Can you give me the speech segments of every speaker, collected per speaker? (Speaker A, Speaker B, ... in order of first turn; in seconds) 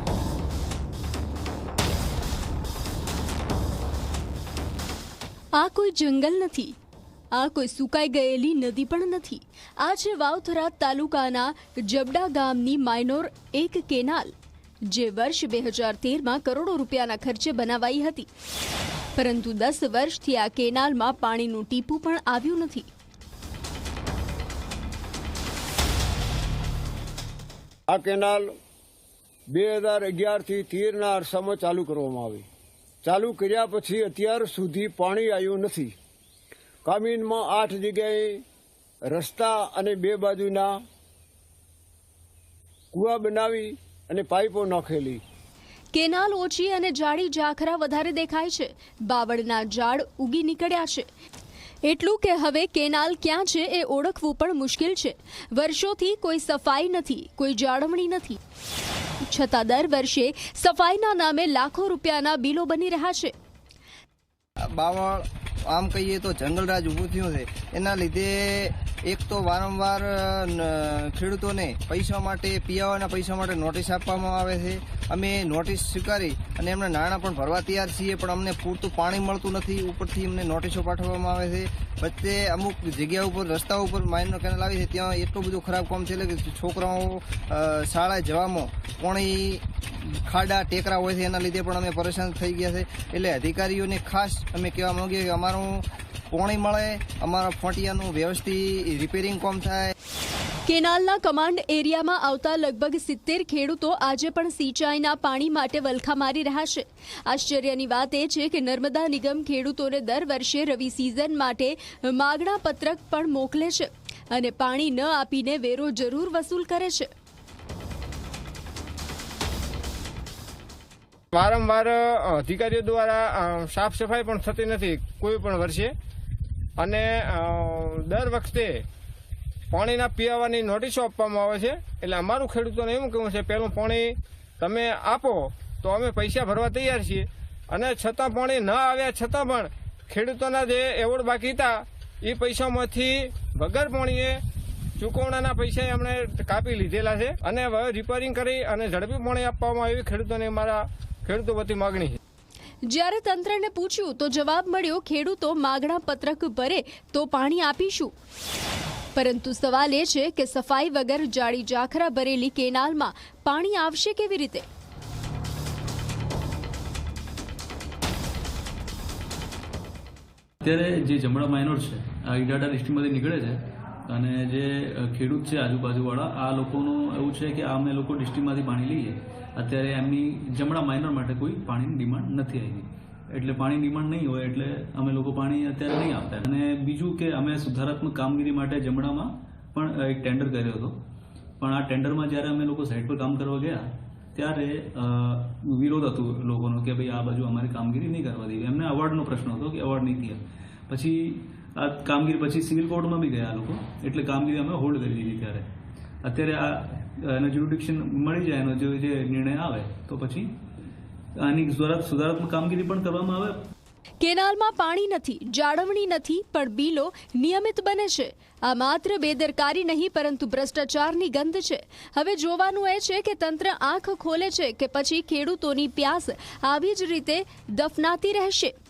Speaker A: 5.5-6.8, 7.3-14.3, 14.9-18.3, 19.2-22.9, 45.9-51.1, 51.8-58.4, 59.2-63.3, 100.7-117.1, 152.9-158.1, 159.2-164.7, 214.2-228.8
Speaker B: 27.9-28.6, 29.5-32.5, 33.0-36.0, 36.9-38.4, 39.1-40.8, 42.9-45.2
Speaker C: 64.7-99.9
Speaker D: 121.3-125.9, 126.8-128.8, 129.7-144.4, 145.0-152.2
Speaker E: 170.6-191.0, 191.6-205.7, 206.2-210.5, 211.4-213.7